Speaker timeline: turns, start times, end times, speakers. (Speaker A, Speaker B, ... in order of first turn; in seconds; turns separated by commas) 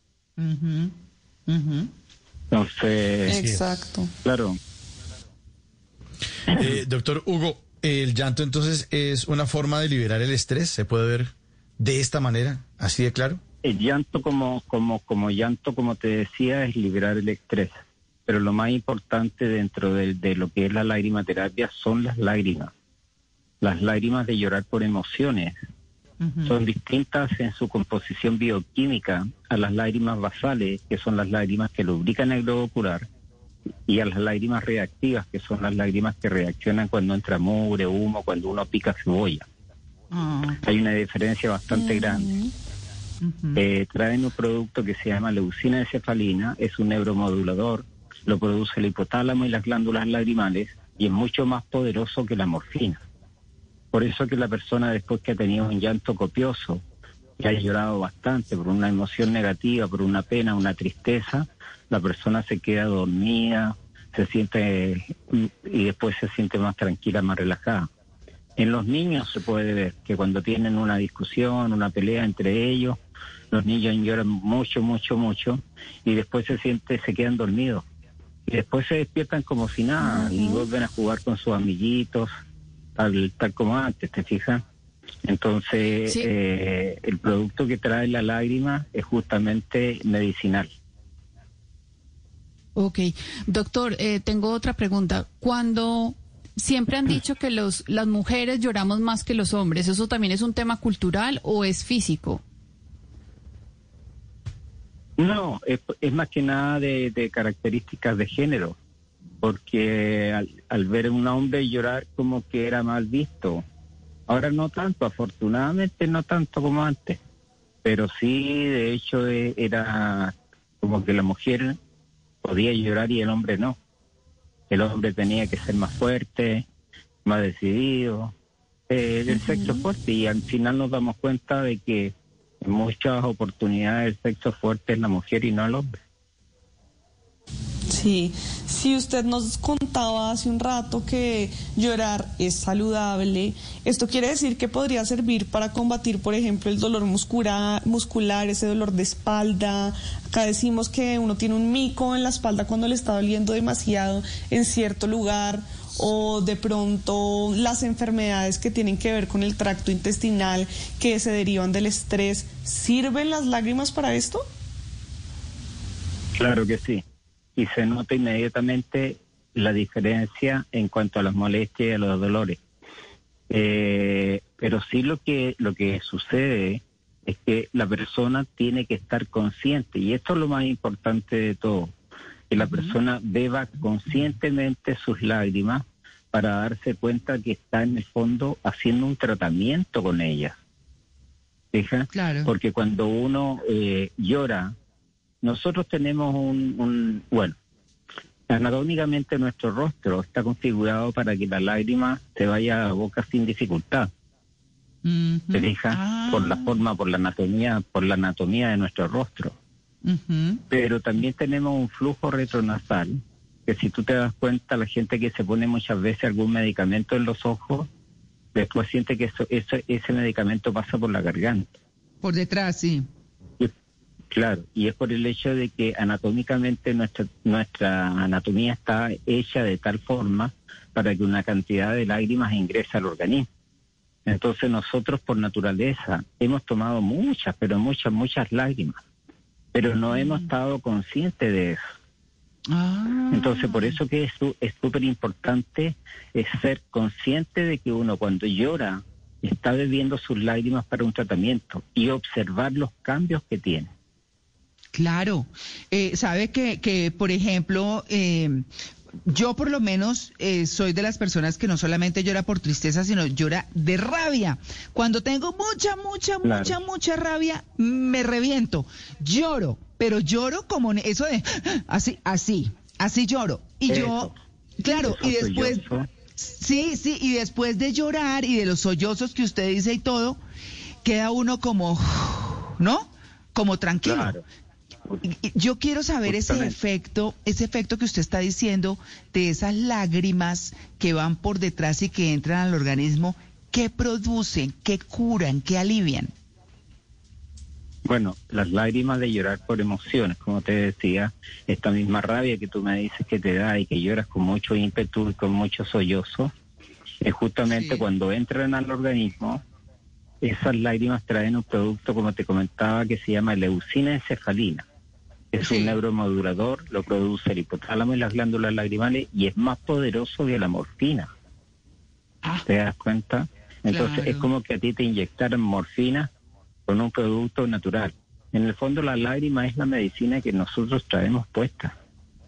Speaker A: 0.4-0.9, Speaker A: 1.5-1.9, Speaker B: 2.5-3.4, Speaker C: 3.3-4.1, Speaker D: 3.3-3.8, Speaker B: 4.2-4.6, Speaker D: 6.5-13.4, Speaker B: 13.6-22.7, Speaker B: 23.6-25.6, Speaker A: 26.2-26.5, Speaker B: 26.4-33.1, Speaker B: 33.9-39.5, Speaker A: 40.1-40.6, Speaker B: 40.6-42.3, Speaker C: 41.7-42.5, Speaker A: 43.2-43.6, Speaker B: 43.5-53.0, Speaker B: 53.9-56.8, Speaker B: 57.4-67.9, Speaker B: 68.6-73.0, Speaker B: 73.5-77.8, Speaker B: 78.5-82.3, Speaker C: 80.0-80.7, Speaker B: 83.0-84.6, Speaker B: 85.2-90.7, Speaker E: 92.8-102.4, Speaker B: 105.2-108.8, Speaker B: 109.4-113.6, Speaker B: 114.3-117.2, Speaker B: 117.8-121.8, Speaker B: 122.4-123.8, Speaker B: 124.7-126.7, Speaker B: 127.2-128.3, Speaker B: 128.9-135.9, Speaker C: 129.4-129.7, Speaker C: 137.9-164.4, Speaker B: 166.4-167.0, Speaker B: 167.6-172.6, Speaker B: 173.5-181.9, Speaker B: 182.5-190.6, Speaker A: 182.6-183.0, Speaker B: 191.7-194.7, Speaker A: 192.1-192.5, Speaker B: 195.4-197.6, Speaker B: 198.5-204.1, Speaker A: 205.0-206.8, Speaker B: 205.5-209.5, Speaker A: 210.0-210.6, Speaker B: 210.7-217.9, Speaker B: 218.5-221.8, Speaker A: 222.2-223.1, Speaker B: 224.3-233.5, Speaker B: 234.3-239.0, Speaker B: 239.7-241.8, Speaker A: 240.1-240.4, Speaker A: 242.7-244.0, Speaker B: 243.3-253.9, Speaker A: 254.9-258.6, Speaker A: 259.2-275.8, Speaker B: 266.4-266.7, Speaker B: 273.9-274.3, Speaker B: 274.9-276.1, Speaker A: 276.4-280.4, Speaker A: 281.0-284.3, Speaker B: 284.0-284.4, Speaker A: 285.2-296.3, Speaker B: 286.3-286.7, Speaker B: 298.0-306.5, Speaker B: 307.2-309.6, Speaker A: 307.7-308.0, Speaker B: 310.4-314.9, Speaker B: 315.5-321.3, Speaker A: 315.6-316.0, Speaker B: 322.6-326.3, Speaker A: 323.9-324.5, Speaker B: 326.9-331.9